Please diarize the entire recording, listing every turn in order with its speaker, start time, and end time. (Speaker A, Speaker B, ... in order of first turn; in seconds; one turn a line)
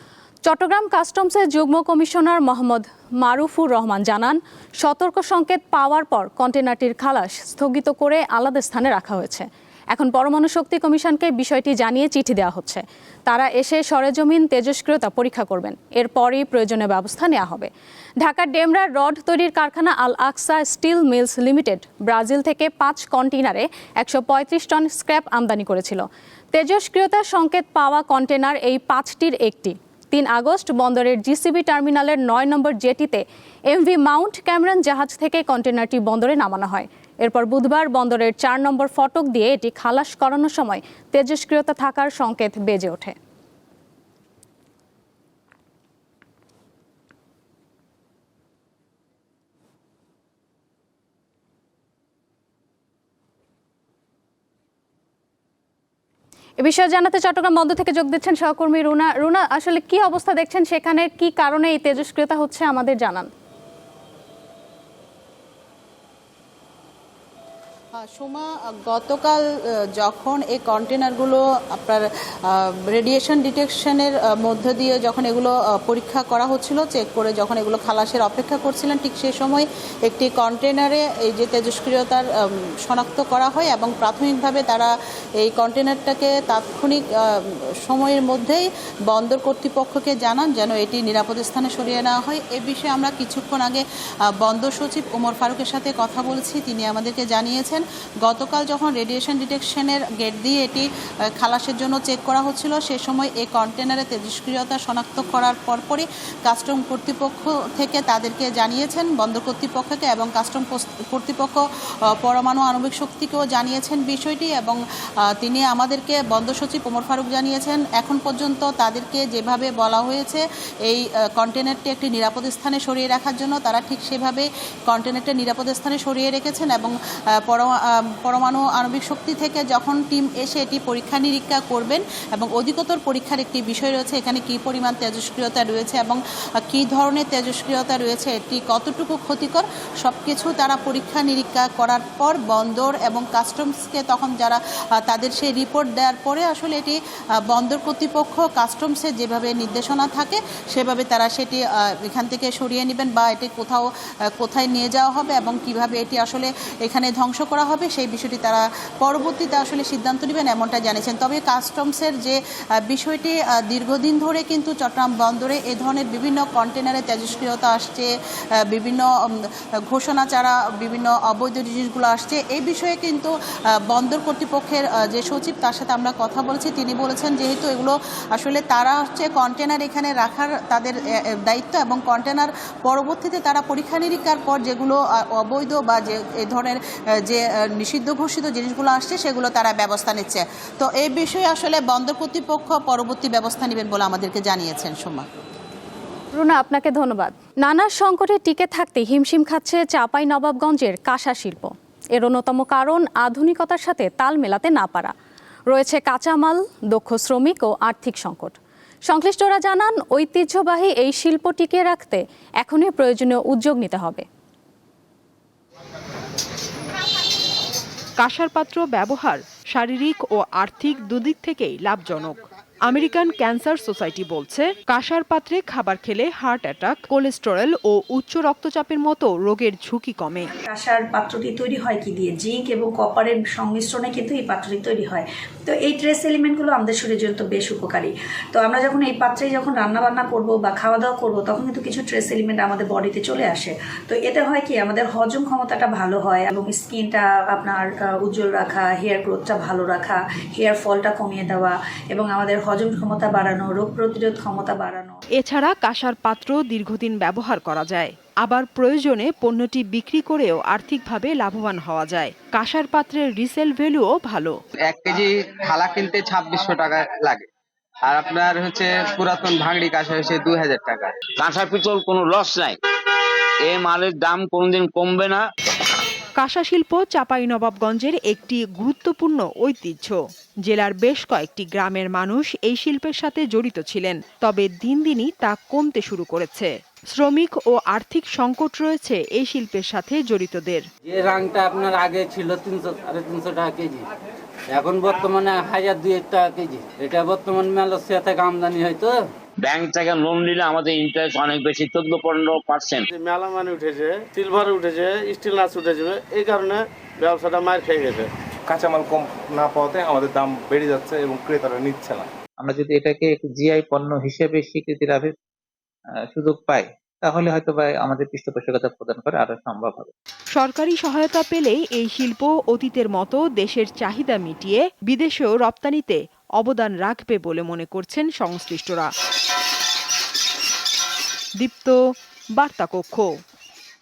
Speaker A: 0.4-43.1
Speaker A: 56.6-63.3
Speaker B: 68.2-69.3
Speaker B: 70.0-72.0
Speaker B: 72.9-82.2
Speaker B: 82.9-84.9
Speaker B: 85.4-87.0
Speaker B: 87.9-93.8
Speaker B: 94.4-100.8
Speaker B: 101.4-111.6
Speaker B: 112.2-114.8
Speaker B: 115.4-126.9
Speaker B: 128.2-136.2
Speaker B: 136.7-146.9
Speaker B: 147.5-151.6
Speaker B: 152.1-153.8
Speaker B: 154.4-162.3
Speaker B: 162.9-168.1
Speaker B: 168.7-169.0
Speaker B: 169.9-173.3
Speaker B: 173.9-180.9
Speaker B: 181.5-186.8
Speaker B: 187.3-195.2
Speaker A: 196.3-205.1
Speaker A: 205.7-214.2
Speaker C: 218.2-230.5
Speaker D: 230.7-255.2
Speaker C: 255.4-264.5
Speaker E: 264.8-271.2
Speaker F: 271.4-272.8
Speaker F: 273.6-275.4
Speaker C: 276.4-290.8
Speaker G: 291.1-294.0
Speaker G: 294.7-299.2
Speaker F: 299.6-303.1
Speaker H: 303.1-308.3
Speaker I: 308.7-312.2
Speaker J: 312.6-315.3
Speaker J: 316.3-320.1
Speaker C: 320.5-329.1
Speaker C: 331.6-332.0
Speaker C: 332.6-333.3